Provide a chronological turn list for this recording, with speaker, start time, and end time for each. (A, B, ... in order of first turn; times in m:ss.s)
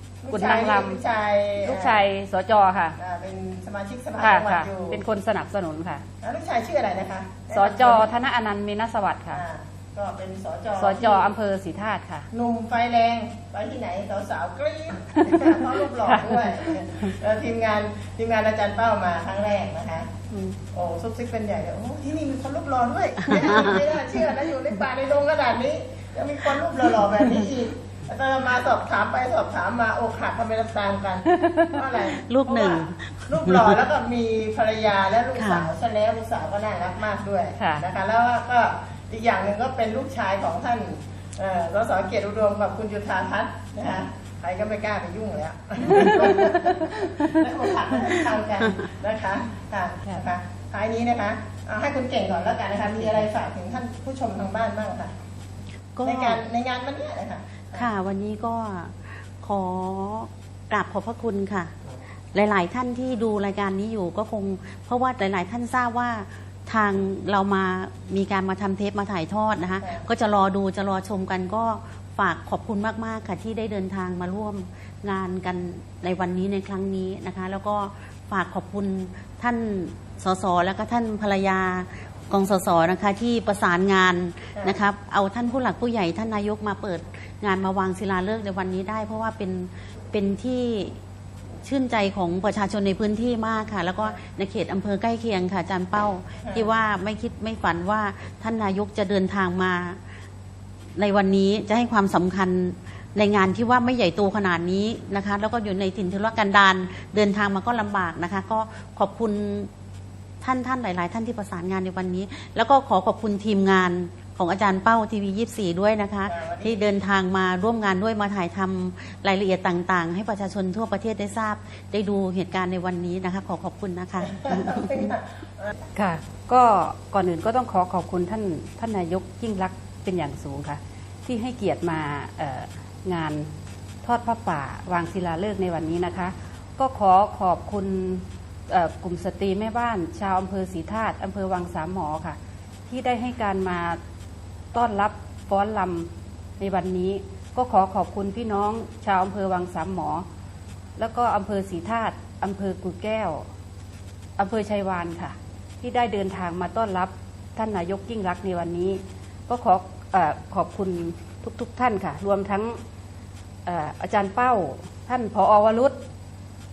0:00.2-0:02.1 A
0:00.3-0:01.0 B
0:01.6-0:03.0 B
0:03.0-0:05.0 A
0:04.2-0:06.0 B
0:06.2-0:08.1 A
0:07.5-0:09.4 B
0:09.3-0:11.3 A
0:10.8-0:12.3 B
0:12.3-0:55.1 A
0:15.3-0:17.1 B
0:23.3-0:23.8 C
0:31.3-0:31.7 B
0:32.2-0:33.8 C
0:35.4-0:35.7 C
0:37.6-0:37.8 B
0:45.8-0:47.0 B
0:56.0-0:56.4 C
0:56.0-0:57.9 A
0:57.7-1:01.7 C
1:02.3-1:31.0 C
1:09.8-1:10.1 A
1:24.6-1:24.8 A
1:31.6-1:40.0 C
1:36.4-1:36.7 A
1:41.0-1:49.7 C
1:50.4-2:05.1 C
1:56.3-1:57.0 A
2:04.2-2:05.8 A
2:06.0-2:13.5 B
2:14.0-2:24.0 B
2:24.7-2:30.2 B
2:31.0-2:33.4 B
2:34.4-2:42.8 B
2:43.7-2:46.0 B